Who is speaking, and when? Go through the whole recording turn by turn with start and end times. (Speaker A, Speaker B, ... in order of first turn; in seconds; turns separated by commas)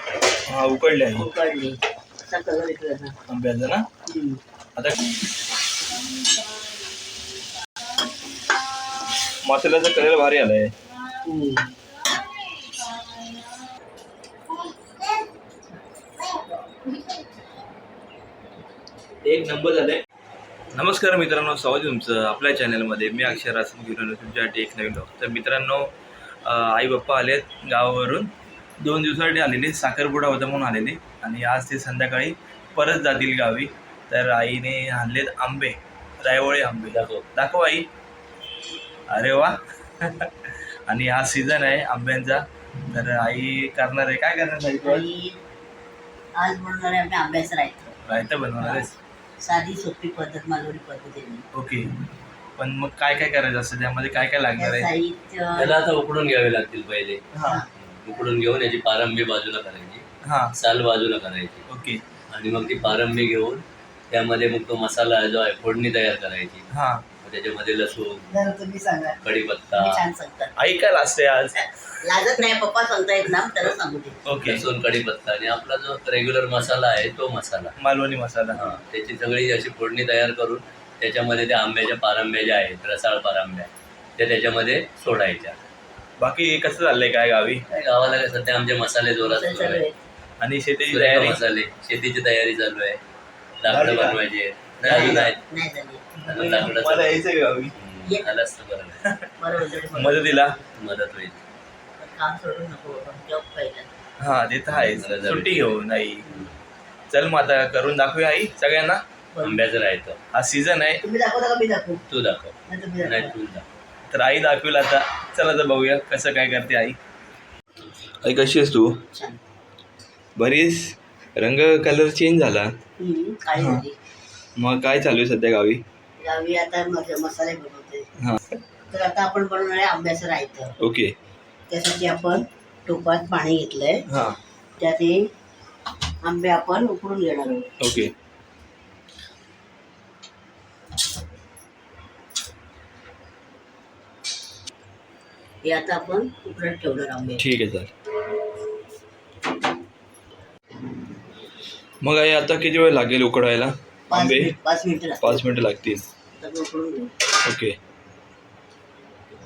Speaker A: 0.5-1.3, Speaker B: 1.2-1.8, Speaker B: 2.3-3.1, Speaker A: 3.3-3.9, Speaker B: 4.1-4.4, Speaker A: 9.4-10.7, Speaker B: 11.2-11.7, Speaker A: 19.2-20.0, Speaker A: 20.7-25.9, Speaker A: 26.4-37.9, Speaker C: 36.9-37.2, Speaker A: 39.1-45.1, Speaker B: 44.8-45.4, Speaker B: 46.4-48.0, Speaker A: 48.1-48.9, Speaker B: 48.6-48.9, Speaker B: 49.4-51.4, Speaker A: 51.5-51.9, Speaker A: 52.6-54.9, Speaker B: 54.6-55.7, Speaker C: 55.5-60.0, Speaker A: 57.3-57.6, Speaker A: 60.2-60.5, Speaker C: 60.5-61.6, Speaker A: 61.7-62.0, Speaker C: 62.3-66.7, Speaker A: 66.7-67.0, Speaker C: 67.2-68.3, Speaker B: 68.3-70.5, Speaker C: 69.2-70.0, Speaker A: 70.6-71.5, Speaker B: 72.0-74.2, Speaker A: 74.2-74.6, Speaker C: 74.4-77.7, Speaker A: 77.8-78.6, Speaker C: 78.5-85.6, Speaker A: 86.2-87.6, Speaker C: 87.7-89.8, Speaker B: 89.2-90.0, Speaker A: 90.4-91.4, Speaker C: 90.9-93.0, Speaker C: 93.6-95.4, Speaker A: 93.7-94.2, Speaker A: 94.8-95.3, Speaker B: 94.9-96.1, Speaker A: 96.2-97.7, Speaker C: 96.2-97.2, Speaker C: 97.8-99.0, Speaker B: 99.4-100.7, Speaker A: 99.8-100.5, Speaker C: 100.7-101.4, Speaker B: 102.0-103.9, Speaker A: 104.2-106.2, Speaker C: 104.7-105.8, Speaker B: 106.2-106.5, Speaker A: 107.1-109.0, Speaker B: 109.3-109.6, Speaker C: 109.4-110.2, Speaker A: 110.3-111.0, Speaker B: 111.0-112.0, Speaker C: 112.1-113.6, Speaker B: 112.7-113.3, Speaker A: 114.1-117.0, Speaker A: 118.2-119.0, Speaker B: 119.1-119.4, Speaker A: 120.3-122.7, Speaker B: 123.0-124.0, Speaker A: 123.5-123.8, Speaker A: 124.6-125.8, Speaker B: 126.2-128.1, Speaker B: 128.9-130.7, Speaker A: 130.8-131.1, Speaker B: 131.7-134.0, Speaker A: 134.1-134.4, Speaker B: 134.8-135.2, Speaker B: 136.2-137.7, Speaker A: 137.8-138.1, Speaker B: 145.6-147.4, Speaker A: 147.4-147.9, Speaker A: 152.0-154.5, Speaker B: 154.1-155.5, Speaker A: 155.2-156.1, Speaker B: 156.4-157.1, Speaker A: 157.4-157.7